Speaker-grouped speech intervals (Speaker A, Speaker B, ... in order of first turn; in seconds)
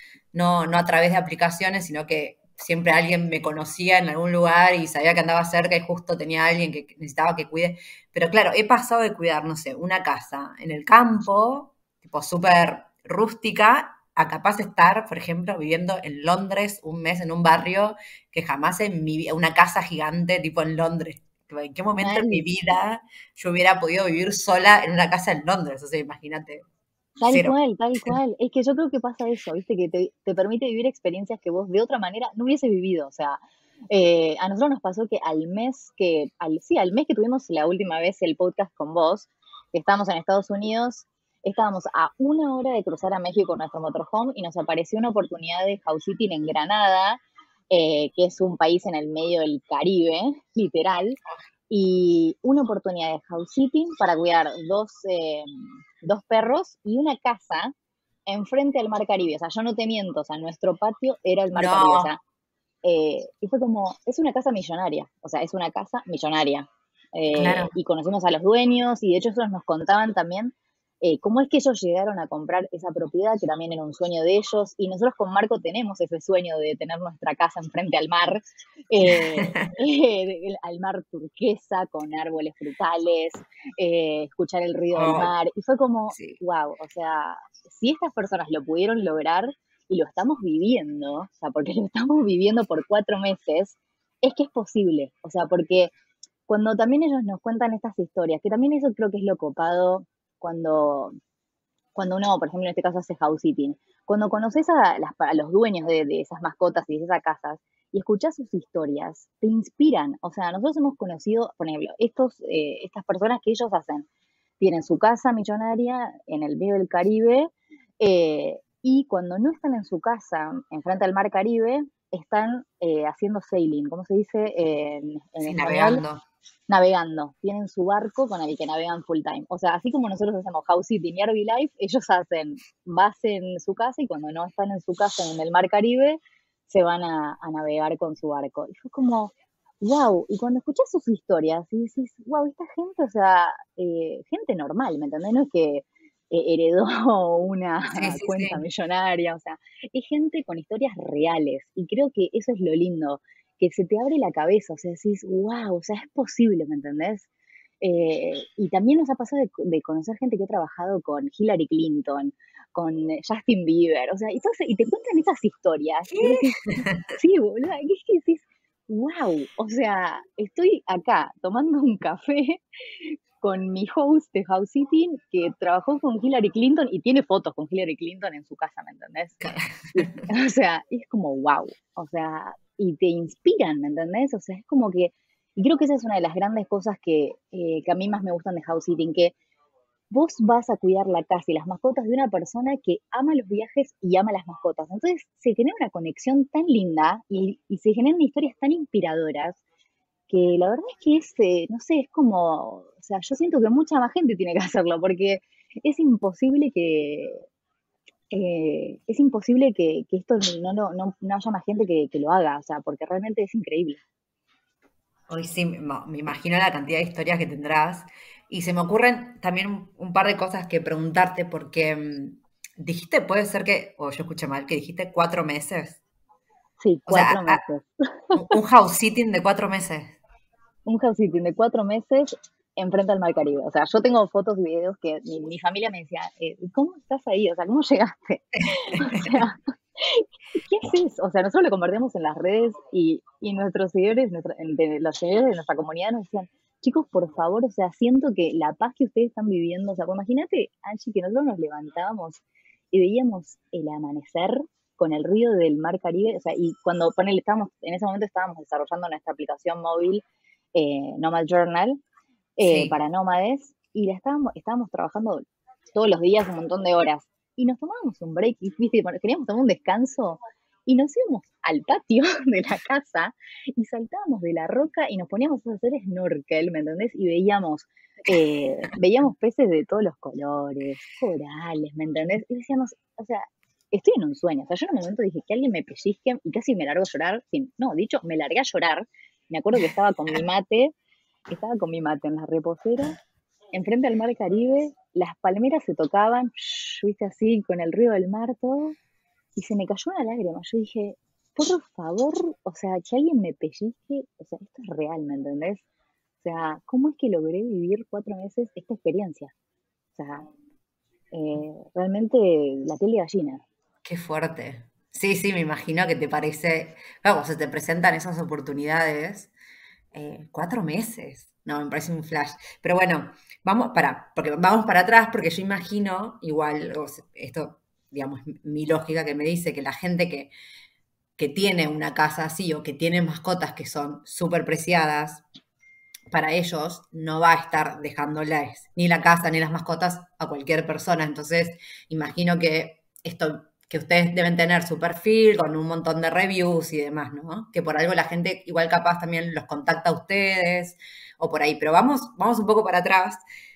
Speaker A: 0.3-26.6, 27.3-28.2, 61.5-62.1, 67.3-67.7, 79.0-79.7, 85.0-85.3, 86.1-86.4, 125.4-126.2, 147.9-148.6, 166.1-167.1, 179.4-180.3, 215.3-226.0, 227.1-227.6, 228.3-230.2, 238.6-239.4, 262.6-262.9, 314.0-319.5, 320.1-330.5, 331.4-335.4, 336.3-353.4
Speaker B: 22.0-22.5, 27.2-51.2, 51.7-57.7, 58.3-62.2, 62.8-95.9, 96.5-101.1, 102.0-114.1, 114.6-126.0, 126.7-157.3, 157.8-189.3, 190.1-199.6, 200.3-207.4, 208.3-214.0, 226.8-228.5, 230.8-260.2, 260.8-262.0, 262.6-265.4, 265.9-290.9, 291.5-293.2, 293.7-299.0, 299.6-305.8, 306.4-309.5, 310.1-310.5, 311.3-313.6